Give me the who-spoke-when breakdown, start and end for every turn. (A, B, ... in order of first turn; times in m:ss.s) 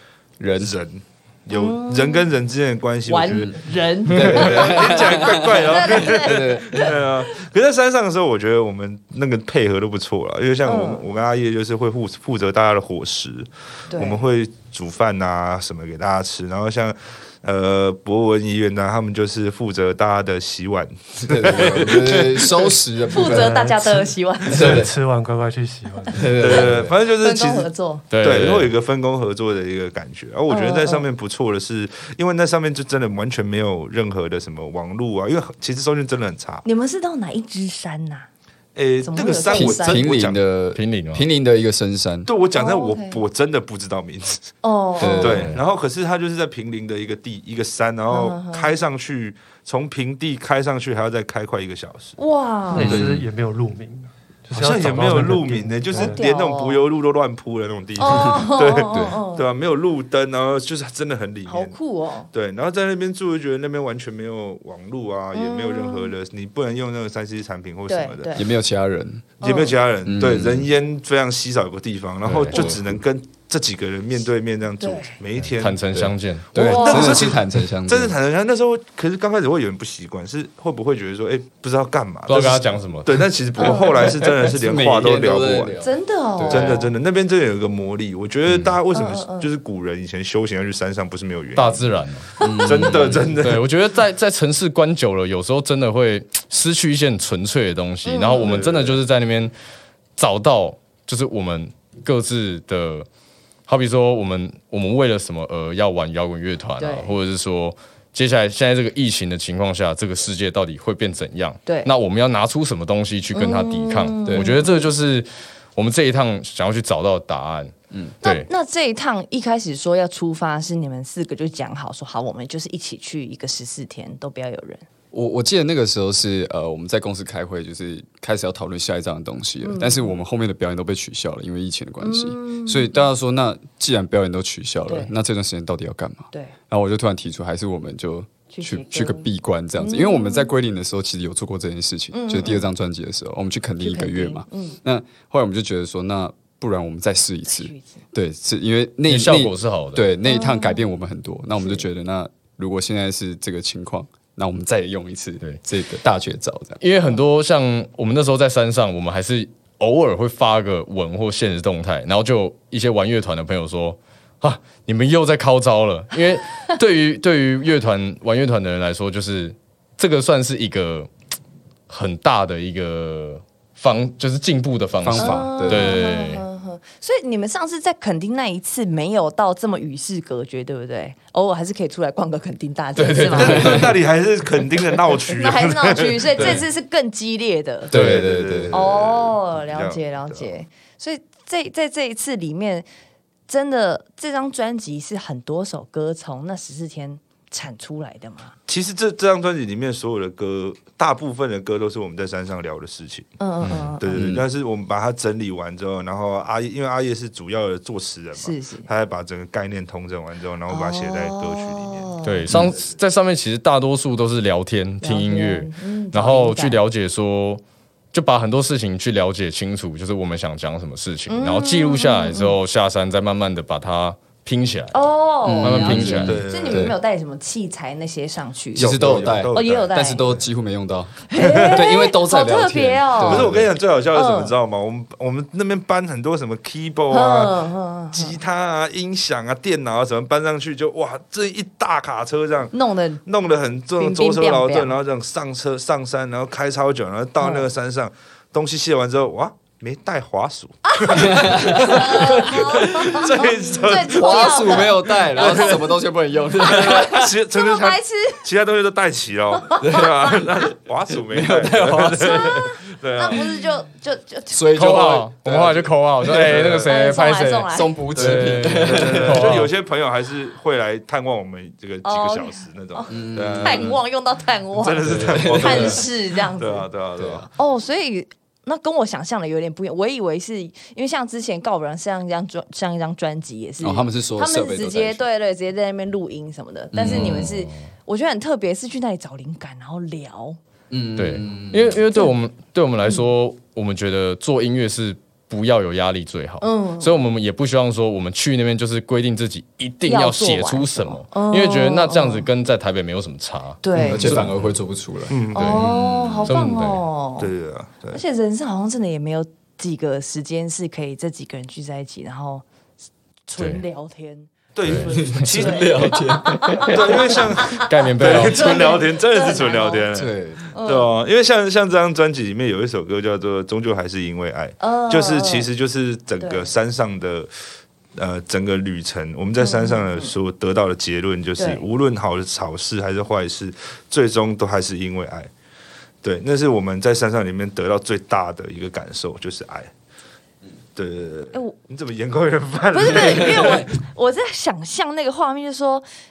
0:00.4-0:00.8 A
0:00.6-0:03.6 B
0:01.5-0:02.3 C
0:03.1-0:07.0 C
0:04.0-0:06.9 A
0:04.2-0:22.8 B
0:10.6-0:11.0 C
0:13.9-0:14.2 C
0:21.2-0:23.7 A
0:23.1-0:24.8 C
0:23.2-0:26.4 D
0:24.5-0:24.9 A
0:26.1-0:26.9 A
0:26.4-0:27.7 B
0:26.5-0:28.0 C
0:28.1-0:28.7 E
0:28.2-0:36.6 B
0:30.5-0:31.1 C
0:36.6-0:38.3 C
0:38.7-0:40.4 B
0:39.0-0:40.1 C
0:39.5-0:42.3 A
0:40.7-0:41.2 E
0:42.2-0:44.4 B
0:42.5-0:43.2 C
0:44.6-0:45.4 C
0:45.0-0:45.6 A
0:45.2-0:52.2 B
0:45.2-0:45.6 E
0:48.1-0:48.7 C
0:52.2-0:53.0 C
0:52.7-0:56.3 D
0:52.8-0:53.2 B
0:54.5-1:01.8 B
0:55.9-0:56.8 C
0:58.0-0:59.4 C
0:58.9-0:59.2 A
1:01.4-1:02.3 C
1:02.3-1:08.4 B
1:05.3-1:06.1 C
1:07.9-1:08.5 C
1:08.3-1:09.2 A
1:09.4-1:15.8 B
1:09.4-1:09.8 C
1:10.0-1:10.7 A
1:12.3-1:12.8 A
1:14.8-1:15.2 C
1:15.4-1:16.5 E
1:15.9-1:18.2 A
1:16.6-1:17.3 C
1:16.6-1:25.7 B
1:22.3-1:23.2 E
1:23.6-1:24.1 C
1:23.6-1:26.9 A
1:25.8-1:26.9 C
1:26.5-1:33.6 B
1:28.9-1:29.5 C
1:31.5-1:39.5 E
1:32.4-1:33.3 A
1:38.0-1:38.6 C
1:38.4-1:39.0 B
1:40.2-1:43.1 E
1:43.7-1:58.5 E
1:46.8-1:47.1 C
1:53.3-1:54.9 C
1:54.2-1:54.6 A
1:58.2-2:04.8 C
2:05.1-2:36.8 A
2:09.6-2:10.1 C
2:12.0-2:13.0 C
2:18.5-2:20.5 C
2:22.1-2:22.7 C
2:23.8-2:24.8 C
2:27.4-2:28.0 C
2:29.1-2:30.0 E
2:30.2-2:30.8 C
2:31.6-2:31.8 C
2:36.8-2:51.1 E
2:51.9-2:56.4 E
2:55.0-2:56.0 A
2:55.2-3:03.8 C
3:03.0-3:03.8 E
3:03.3-3:03.9 A
3:03.4-3:06.6 B
3:05.3-3:07.9 C
3:07.9-3:08.9 A
3:07.9-3:10.5 B
3:08.7-3:12.8 C
3:13.5-3:18.6 C
3:18.7-3:23.3 B
3:23.4-3:24.1 C
3:23.7-3:24.4 A
3:24.0-3:32.1 B
3:28.4-3:28.9 C
3:30.7-3:32.5 C
3:32.2-3:37.6 E
3:32.5-3:32.8 A
3:35.0-3:36.8 C
3:38.1-3:45.0 E
3:41.3-3:42.6 C
3:44.9-3:50.2 C
3:45.4-3:47.0 A
3:45.6-3:46.4 E
3:46.2-3:46.9 B
3:48.7-3:50.4 B
3:48.8-3:53.7 A
3:51.3-3:53.5 C
3:51.4-3:51.8 B
3:53.2-3:57.6 B
3:54.1-3:54.5 C
3:57.1-3:58.4 C
3:58.1-4:02.7 B
4:02.7-4:03.2 C
4:03.2-4:15.9 B
4:04.0-4:04.9 C
4:07.4-4:07.7 C
4:10.8-4:15.9 C
4:11.1-4:12.3 A
4:13.9-4:17.3 A
4:16.6-4:18.5 C
4:16.6-4:23.5 B
4:19.6-4:20.4 C
4:21.3-4:22.6 A
4:22.2-4:24.8 C
4:24.5-4:26.9 A
4:24.7-4:29.7 E
4:25.4-4:25.9 B
4:26.8-4:28.0 C
4:27.7-4:29.7 A
4:28.2-4:34.0 B
4:32.0-4:36.9 C
4:33.1-4:34.0 A
4:34.8-4:37.5 B
4:35.1-4:36.0 A
4:37.2-4:37.5 A
4:37.6-4:50.6 C
4:43.8-4:45.2 A
4:46.9-4:47.5 A
4:47.1-4:47.9 E
4:50.9-4:52.0 A
4:51.2-5:04.5 E
4:56.6-4:57.2 C
5:00.0-5:02.5 C
5:03.8-5:04.3 C
5:04.0-5:04.4 B
5:04.0-5:06.5 A
5:05.3-5:06.3 B
5:05.5-5:07.5 C
5:05.5-5:05.9 E
5:06.5-5:07.0 E
5:07.4-5:08.2 B
5:08.1-5:12.6 C
5:13.5-5:20.1 C
5:14.7-5:16.2 B
5:14.8-5:15.2 E
5:15.0-5:17.4 A
5:16.8-5:27.5 B
5:17.7-5:19.0 E
5:20.1-5:20.6 A
5:20.7-5:21.1 C
5:24.8-5:25.7 C
5:26.4-5:26.7 C
5:28.2-5:35.5 B
5:29.6-5:30.3 C
5:31.6-5:31.8 C
5:36.2-5:39.9 B
5:40.9-5:43.9 B
5:42.9-5:46.0 C